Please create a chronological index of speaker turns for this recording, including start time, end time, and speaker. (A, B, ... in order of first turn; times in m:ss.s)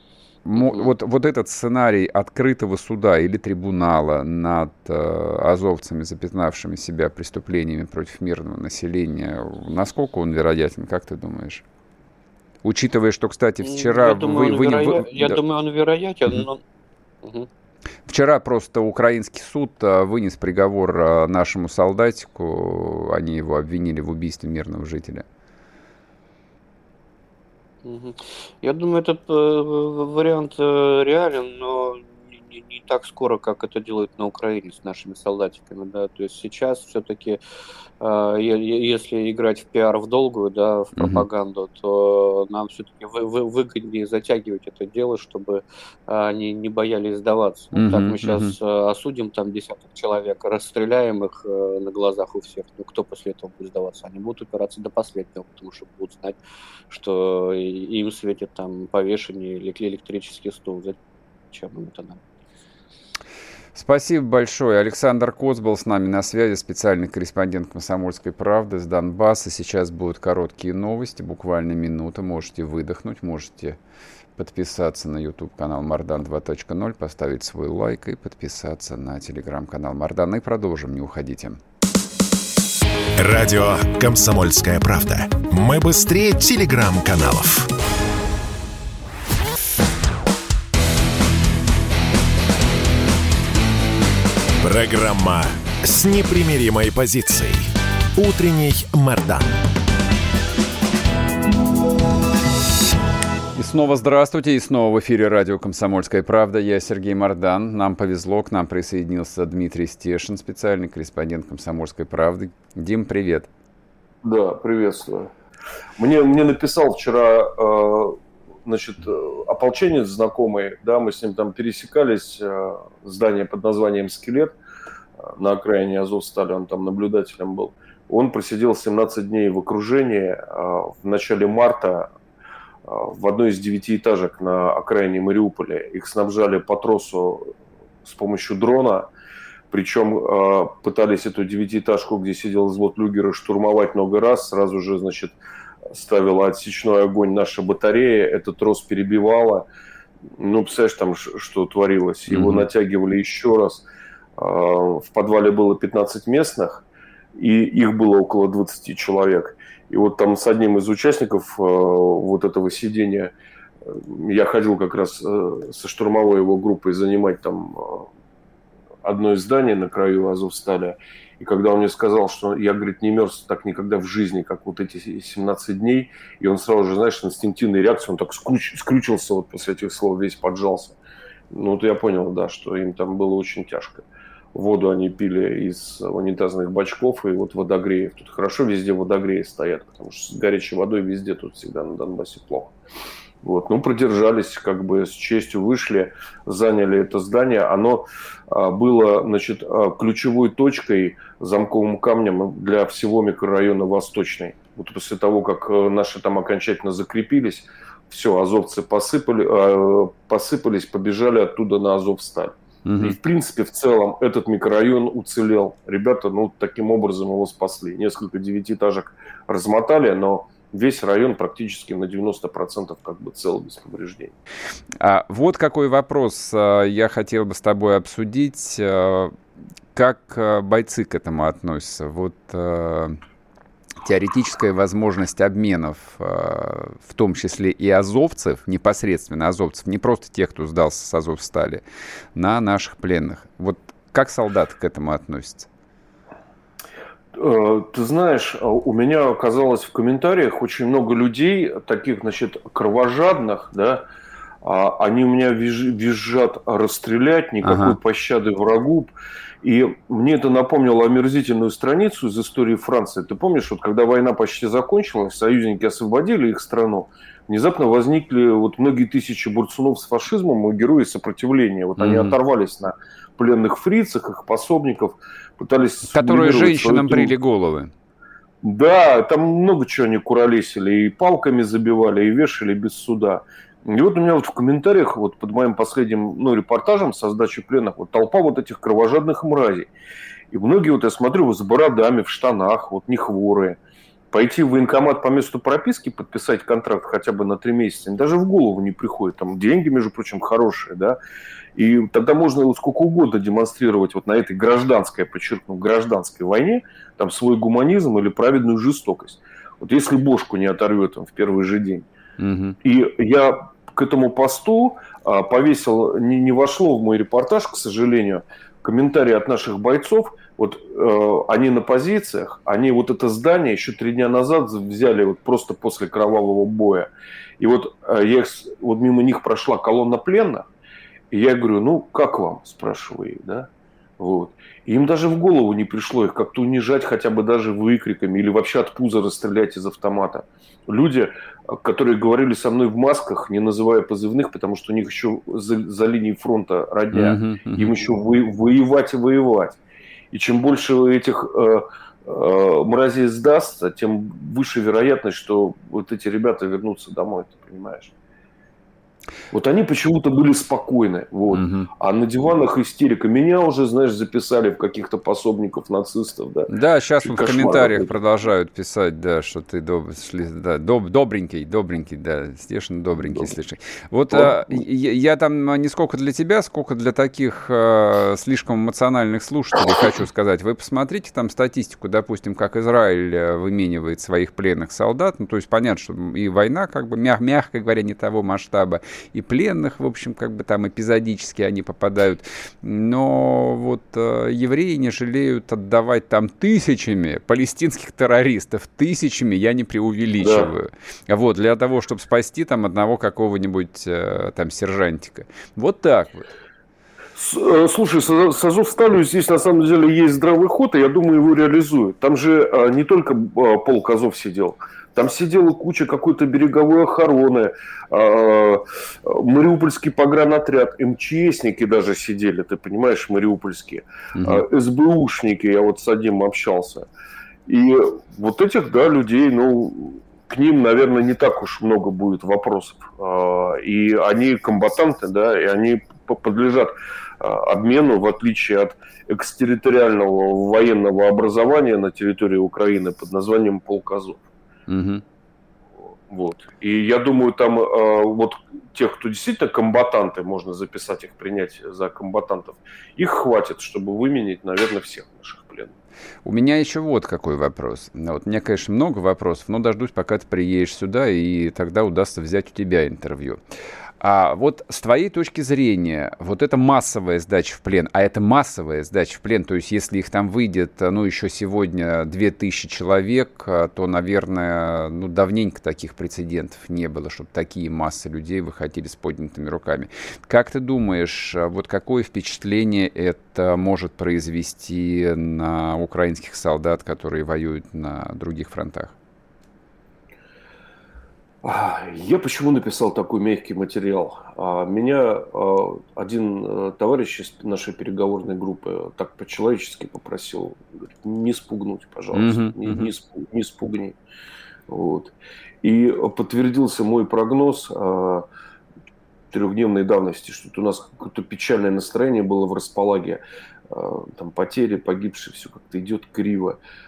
0:00.4-0:11.6 A
0:12.6-0:15.4 A
0:13.6-0:16.6 B
0:17.2-0:17.5 B
0:18.1-0:25.2 A
0:27.8-0:37.4 B
0:38.0-0:56.4 B
0:41.0-0:41.2 A
0:47.7-0:48.6 A
0:56.9-1:01.0 B
1:01.5-1:02.2 B
1:03.8-1:13.8 A
1:14.4-1:21.6 A
1:23.2-1:27.7 C
1:34.6-1:39.7 C
1:43.5-1:53.5 A
1:54.2-1:55.3 D
1:56.0-2:04.6 D
2:05.2-2:12.1 D
2:12.8-2:19.1 D
2:19.7-2:25.4 D
2:25.9-2:29.7 D
2:30.4-2:33.8 D
2:32.3-2:32.7 A
2:34.4-2:36.8 D
2:37.4-2:43.3 D
2:43.9-2:48.1 D
2:49.0-3:01.0 D
3:01.5-3:12.7 D
3:13.4-3:44.3 D
3:32.8-3:33.2 A
3:45.0-3:49.4 A
3:49.9-3:53.2 A
3:54.0-4:01.8 A
4:02.4-4:05.7 A
4:07.3-4:14.1 D
4:14.6-4:19.1 D
4:17.6-4:18.0 A
4:19.6-4:37.3 D
4:32.0-4:32.4 A
4:36.1-4:37.9 A
4:38.6-4:49.9 D
4:50.5-4:53.8 D
4:54.3-5:01.2 D
5:01.8-5:12.1 D
5:12.4-5:12.8 A
5:12.8-5:30.7 D
5:31.3-5:49.8 D
5:47.1-5:47.9 A
5:50.3-5:58.1 D
5:59.5-6:08.1 D
6:01.5-6:01.9 A
6:06.7-6:46.5 A
6:14.3-6:14.8 D
6:40.4-6:40.7 D
6:47.4-7:07.1 D
7:04.4-7:04.6 A
7:07.7-7:24.4 D
7:24.9-7:25.2 A
7:26.3-7:35.9 D
7:36.4-7:43.6 A
7:44.2-8:09.2 A
8:11.6-8:24.2 D
8:22.3-8:23.1 A
8:24.9-8:28.5 D
8:29.5-8:36.8 D